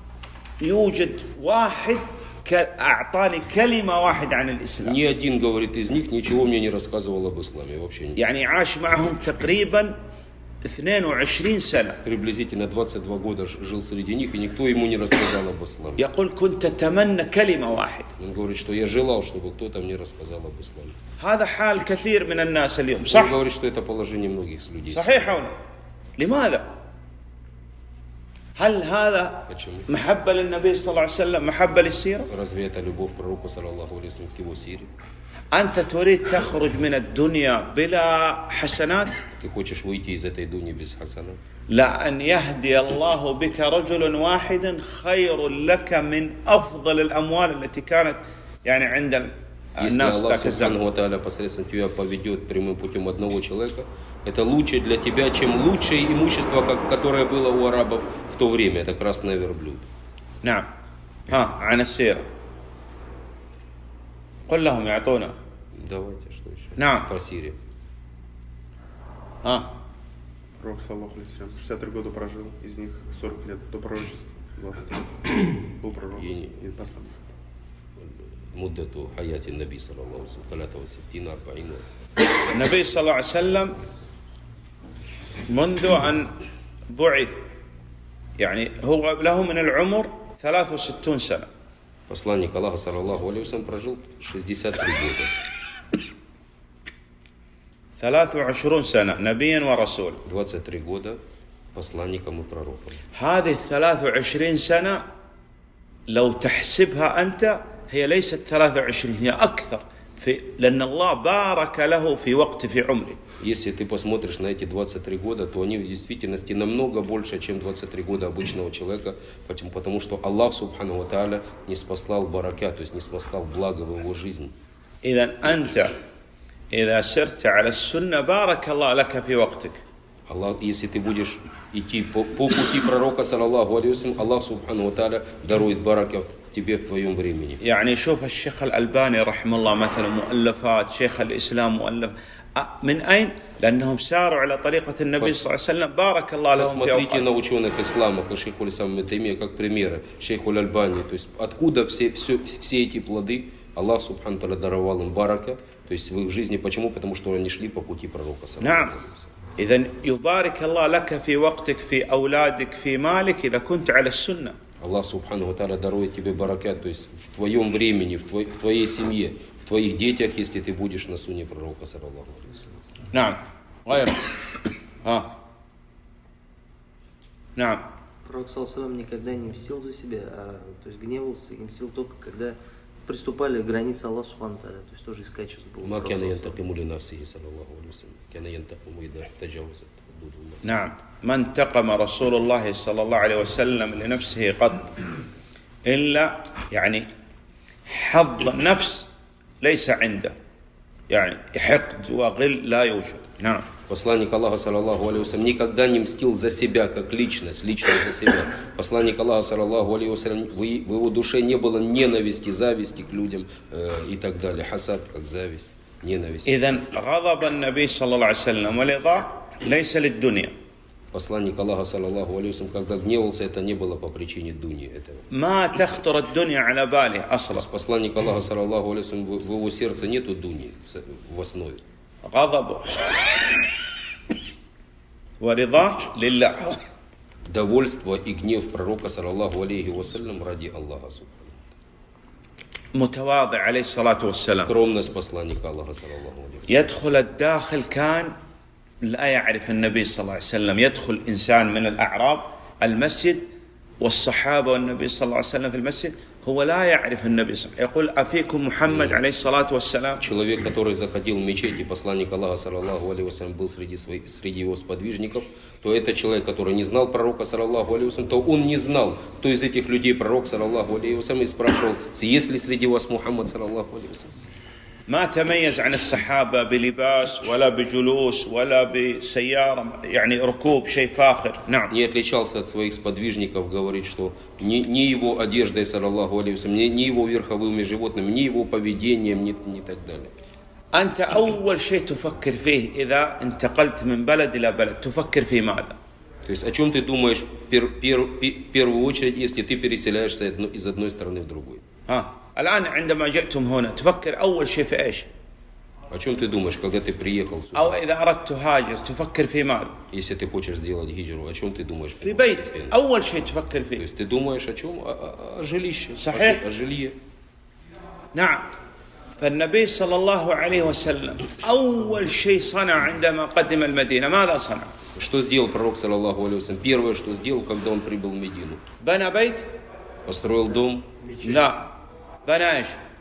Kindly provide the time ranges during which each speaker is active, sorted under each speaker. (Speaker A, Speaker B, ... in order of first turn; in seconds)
Speaker A: 0.6-5.0, 8.2-9.9, 10.7-12.0, 16.0-18.1, 21.2-23.4, 24.9-25.5, 26.2-26.6, 28.6-32.3, 35.5-39.2, 41.7-50.8, 61.3-62.2, 64.5-65.3, 66.8-67.1, 69.4-69.7, 82.5-83.8, 85.5-86.3, 86.9-87.4, 88.4-91.5, 98.0-100.2, 103.2-105.0, 106.1-113.2, 125.0-125.9, 126.7-129.8, 137.6-147.3, 158.6-158.9, 159.6-164.6, 173.1-174.3, 175.0-175.3, 177.6-177.8, 190.6-195.0, 195.8-197.1, 197.9-199.1, 199.6-200.3, 201.1-203.7, 216.5-220.5, 225.3-227.7, 232.2-233.6, 235.4-236.8, 242.9-244.7, 246.7-248.3, 249.0-253.4, 254.0-260.2, 275.1-281.9, 290.9-296.0, 302.1-305.3, 307.7-309.9, 312.2-314.0, 316.2-316.6, 318.3-318.7, 319.4-324.9, 329.0-329.6, 331.4-331.9, 332.4-333.0
Speaker B: 4.8-8.2, 12.0-16.0, 18.2-20.9, 23.1-25.4, 29.5-29.9, 32.3-34.9, 39.4-41.4, 49.8-59.9, 65.8-67.6, 76.2-76.7, 78.0-81.8, 92.1-95.3, 100.2-101.2, 101.8-103.0, 113.4-124.5, 130.3-137.6, 146.5-159.3, 164.8-172.7, 185.8-190.7, 203.9-216.8, 221.1-225.3, 227.5-231.8, 237.5-241.6, 244.5-246.9, 258.9-259.2, 260.2-274.3, 281.9-290.4, 296.4-301.8, 306.1-308.0, 310.1-313.0, 314.0-317.2, 325.1-328.8, 330.3-331.1
Speaker C: 70.6-77.1
Speaker D: 178.2-186.6